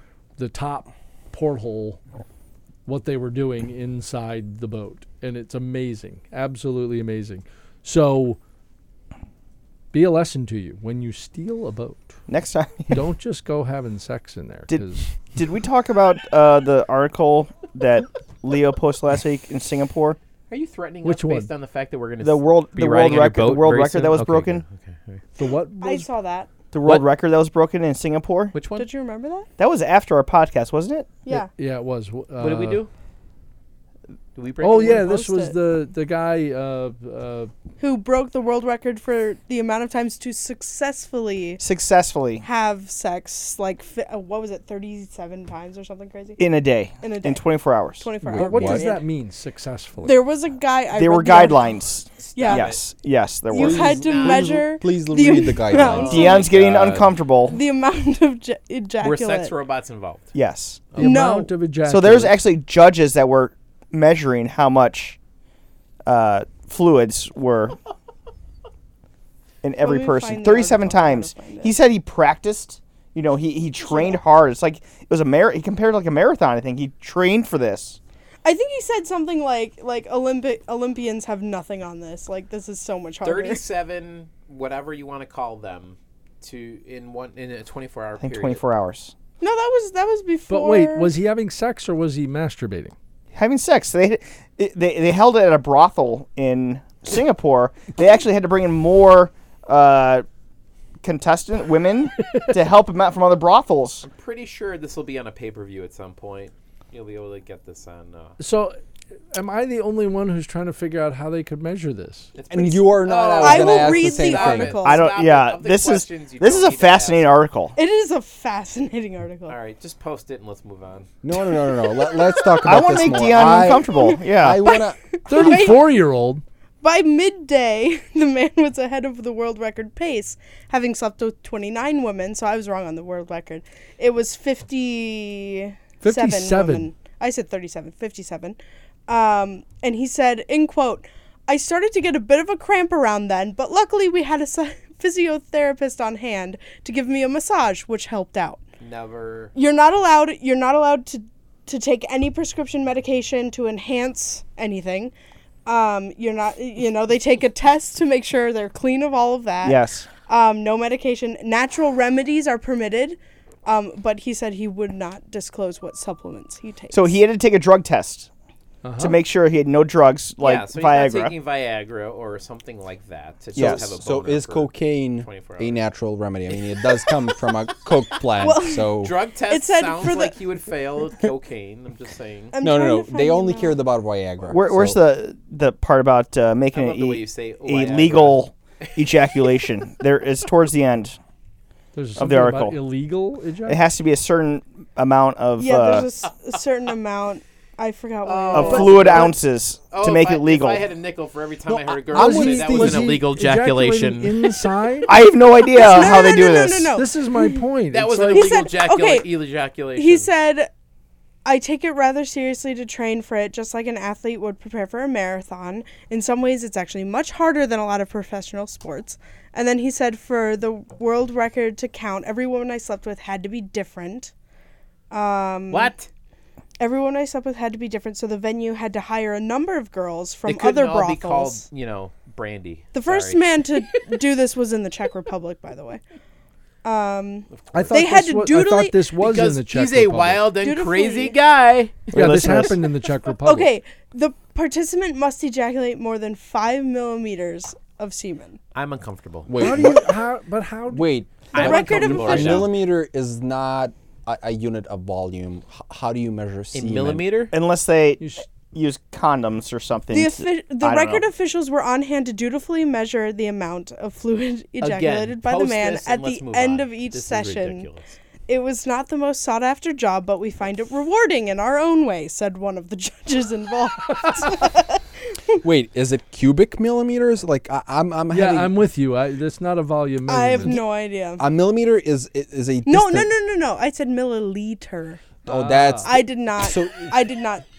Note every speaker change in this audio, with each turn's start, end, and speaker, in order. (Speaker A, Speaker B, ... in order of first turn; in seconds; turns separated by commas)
Speaker A: 0.4-2.0, Speaker A: 2.9-8.4, Speaker A: 9.9-12.2, Speaker B: 12.3-13.0, Speaker A: 12.9-15.3, Speaker B: 14.7-20.2, Speaker C: 20.5-25.2, Speaker A: 21.0-21.5, Speaker B: 22.2-24.6, Speaker A: 25.4-26.1, Speaker D: 25.8-26.5, Speaker B: 26.7-28.5, Speaker C: 28.5-28.9, Speaker D: 28.7-29.5, Speaker B: 29.6-31.2, Speaker D: 31.2-31.5, Speaker A: 31.3-32.8, Speaker C: 32.4-32.9, Speaker C: 34.3-35.1, Speaker A: 34.6-37.5, Speaker D: 34.7-35.5, Speaker D: 37.8-41.6, Speaker B: 41.6-42.4, Speaker D: 42.4-46.4, Speaker B: 46.4-48.1, Speaker D: 47.0-47.4, Speaker D: 48.0-49.0, Speaker A: 48.2-50.2, Speaker E: 48.3-48.9, Speaker D: 50.0-52.7, Speaker B: 50.9-53.8, Speaker C: 52.4-52.8, Speaker D: 53.5-56.5, Speaker E: 53.5-56.2, Speaker C: 53.5-54.6, Speaker C: 55.8-57.1, Speaker B: 56.0-57.5, Speaker D: 57.5-59.5, Speaker C: 59.0-60.4, Speaker B: 60.3-61.0, Speaker C: 60.9-61.2, Speaker A: 61.0-62.4, Speaker D: 61.0-61.5, Speaker B: 61.8-65.2, Speaker B: 66.0-67.8, Speaker B: 69.6-78.0, Speaker D: 69.8-71.7, Speaker D: 73.9-74.2, Speaker D: 78.4-83.6, Speaker C: 83.2-88.6, Speaker B: 88.2-89.1, Speaker D: 89.4-91.1, Speaker A: 90.5-92.9, Speaker B: 93.3-100.2, Speaker B: 101.0-104.0, Speaker A: 102.2-102.7, Speaker C: 104.0-108.4, Speaker A: 108.4-108.8, Speaker A: 109.3-112.3, Speaker C: 112.3-117.3, Speaker E: 112.5-114.8, Speaker D: 113.4-115.1, Speaker B: 114.8-117.7, Speaker D: 117.8-119.5, Speaker C: 119.5-121.1, Speaker E: 121.2-125.7, Speaker D: 121.3-122.7, Speaker B: 122.6-124.7, Speaker D: 124.7-125.8, Speaker A: 125.3-126.4, Speaker D: 126.8-138.6, Speaker A: 136.0-136.9, Speaker D: 139.1-148.6, Speaker C: 148.8-149.5, Speaker D: 149.6-155.1, Speaker D: 155.7-167.1, Speaker B: 159.6-160.1, Speaker B: 166.9-168.3, Speaker A: 168.8-169.2, Speaker B: 169.0-171.3, Speaker C: 170.4-175.9, Speaker E: 173.5-179.1, Speaker B: 173.6-173.8, Speaker D: 178.4-180.3, Speaker C: 179.0-182.5, Speaker D: 182.5-183.8, Speaker E: 182.6-185.0, Speaker B: 184.4-191.2, Speaker C: 186.7-189.4, Speaker A: 191.9-193.8, Speaker B: 192.2-192.8, Speaker B: 193.7-196.1, Speaker D: 195.6-199.3, Speaker C: 196.2-196.5, Speaker C: 198.2-199.3, Speaker B: 198.5-200.8, Speaker C: 199.9-204.5, Speaker E: 202.1-203.1, Speaker A: 202.1-205.1, Speaker B: 205.1-207.0, Speaker D: 205.7-207.5, Speaker A: 206.9-208.6, Speaker C: 207.9-210.3, Speaker D: 208.1-209.3, Speaker D: 209.9-210.7, Speaker D: 211.4-224.3, Speaker D: 225.1-225.9, Speaker C: 225.7-226.1, Speaker D: 226.8-231.6, Speaker C: 230.4-234.0, Speaker D: 232.9-236.0, Speaker D: 236.8-239.0, Speaker C: 237.5-238.0, Speaker A: 237.7-240.5, Speaker C: 239.2-242.1, Speaker D: 240.6-241.3, Speaker B: 242.1-242.9, Speaker A: 242.1-243.7, Speaker D: 243.4-248.6, Speaker C: 248.7-249.7, Speaker E: 249.5-250.2, Speaker A: 249.6-252.7, Speaker E: 250.9-257.3, Speaker C: 251.5-252.7, Speaker D: 251.6-252.6, Speaker C: 256.7-257.5, Speaker B: 257.5-261.2, Speaker A: 258.2-258.5, Speaker D: 260.1-267.9, Speaker C: 264.8-268.2, Speaker D: 268.5-275.6, Speaker E: 275.6-278.8, Speaker A: 278.3-280.8, Speaker D: 280.3-281.4, Speaker E: 281.4-283.3, Speaker D: 282.9-285.3, Speaker A: 285.4-286.1, Speaker E: 285.4-287.2, Speaker D: 286.0-287.6